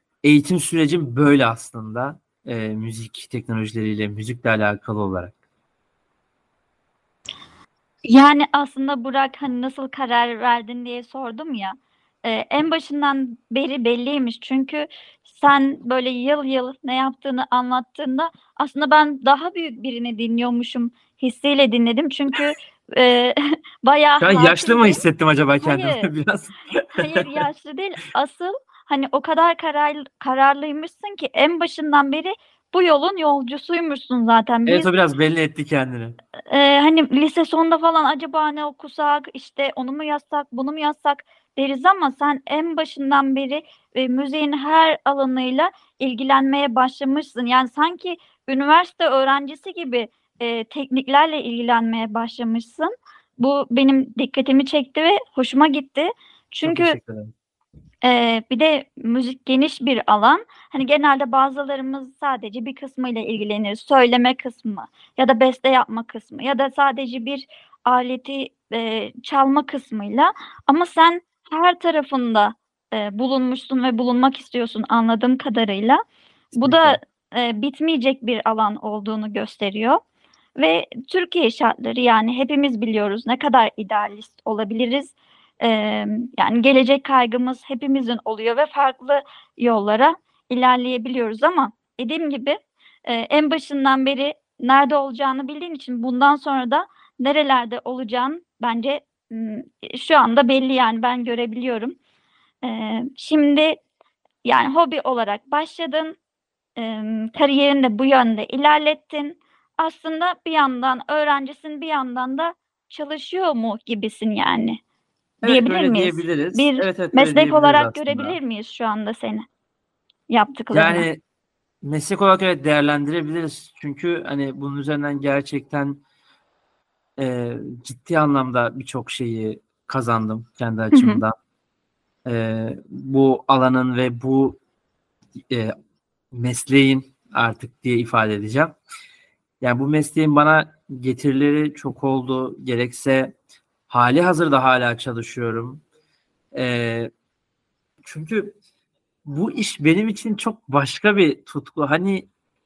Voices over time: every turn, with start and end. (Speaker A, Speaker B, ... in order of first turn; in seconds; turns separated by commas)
Speaker A: 0.2-5.3, Speaker B: 8.1-25.0, Speaker A: 24.2-27.4, Speaker B: 25.6-26.1, Speaker B: 26.9-34.9, Speaker A: 34.7-36.1, Speaker B: 36.5-57.0, Speaker A: 56.6-57.3, Speaker B: 58.0-76.0, Speaker B: 76.6-80.0, Speaker A: 76.6-77.0, Speaker B: 80.6-102.0, Speaker B: 102.6-103.8, Speaker B: 104.4-106.2, Speaker B: 106.8-114.8, Speaker A: 115.4-118.4, Speaker B: 115.4-119.5, Speaker B: 120.3-121.1, Speaker A: 120.7-121.2, Speaker A: 121.8-126.0, Speaker A: 127.2-131.3, Speaker B: 130.9-131.2, Speaker A: 132.2-134.6, Speaker A: 136.3-138.8, Speaker A: 139.6-143.3, Speaker A: 143.9-145.8, Speaker A: 146.5-147.1, Speaker A: 148.0-148.6, Speaker A: 149.3-152.3